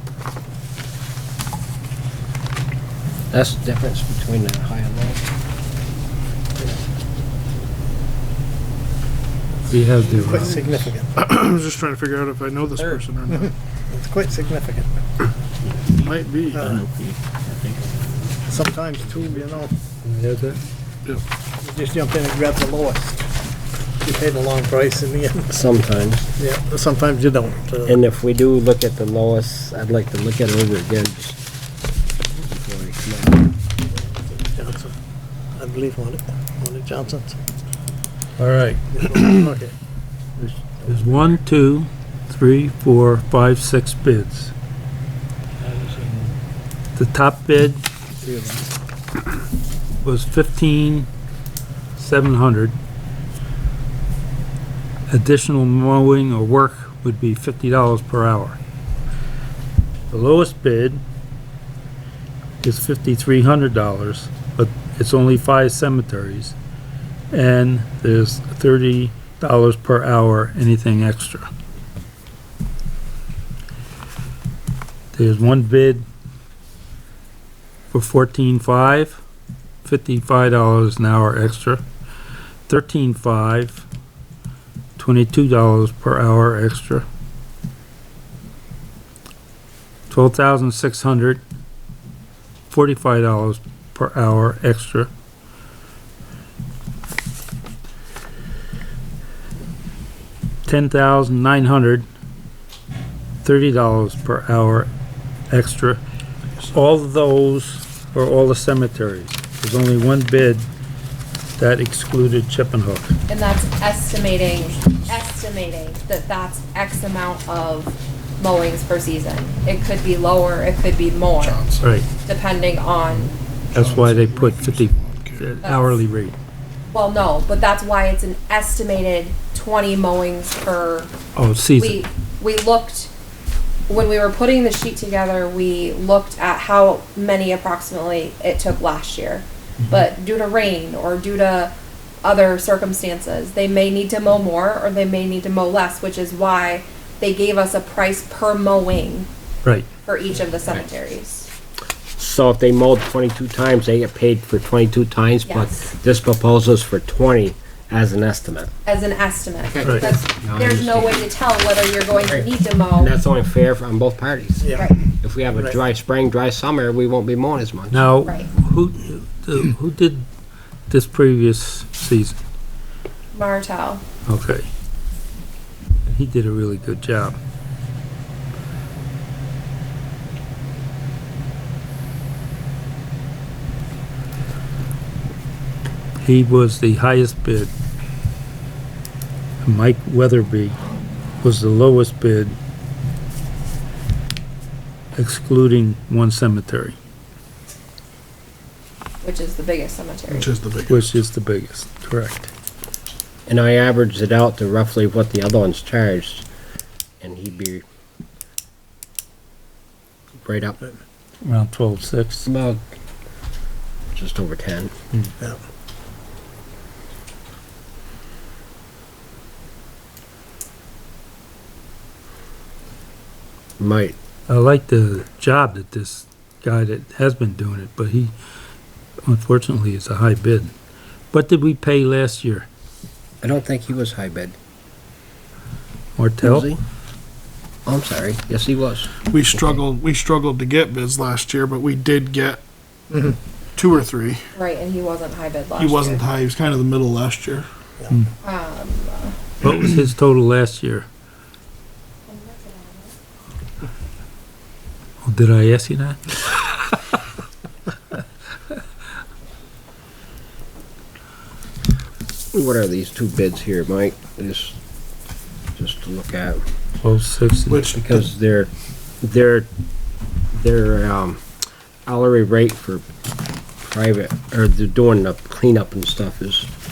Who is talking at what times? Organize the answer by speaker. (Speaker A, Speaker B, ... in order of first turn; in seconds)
Speaker A: 3.3-5.2, 25.5-26.3, 27.8-31.4, 32.3-33.5, 152.2-158.7, 159.6-161.3, 162.2-168.0, 203.5-206.5, 207.2-207.8, 210.4-210.8, 212.5-212.9, 214.1-214.9, 223.8-224.2, 233.4-234.6, 236.4-236.8, 237.9-239.8, 262.5-264.8, 265.8-266.6, 268.0-269.7, 270.5-271.4, 272.1-273.1, 273.8-276.7
Speaker B: 9.7-10.9, 20.0-20.6, 38.4-39.4, 40.9-44.5, 47.0-47.8, 50.0-51.1, 52.0-52.8, 55.1-58.6, 60.1-61.0, 62.6-66.6, 67.3-71.5, 75.1-76.0, 77.9-79.2, 79.8-81.8, 82.7-83.8, 85.0-87.1, 90.1-91.4, 92.7-95.1, 100.7-102.0, 103.4-104.9, 105.5-106.0, 106.7-110.7, 111.6-113.2, 121.8-122.1, 123.7-126.4, 131.3-132.0, 167.9-170.2, 170.9-172.4, 174.2-174.7, 176.1-177.4, 186.2-187.7, 189.6-190.8, 191.4-192.6, 195.2-196.9, 200.9-202.5, 211.4-212.5, 224.5-228.3, 229.2-230.7, 231.3-232.7, 236.2-236.7, 249.6-251.1, 255.2-256.9, 267.0-268.2
Speaker C: 10.2-11.1, 13.3-14.9, 16.5-16.8, 18.4-19.7, 21.6-23.2, 24.0-25.5, 26.4-27.9, 33.9-35.0, 35.5-37.4, 39.0-39.7, 45.6-46.3, 48.2-48.6
Speaker D: 11.1-13.5, 15.9-17.2, 121.4-122.0, 123.7-125.5, 200.3-201.1, 239.2-242.6, 243.8-244.5, 245.8-247.7, 267.7-268.1
Speaker E: 113.3-121.6, 122.2-123.3, 125.6-126.0, 126.9-131.1, 131.8-133.1, 133.9-149.3, 150.1-151.5, 155.5-155.8, 158.8-163.1, 164.7-165.0, 168.2-168.5, 173.3-174.0, 199.2-200.5, 244.6-246.2, 248.4-249.4, 252.2-253.1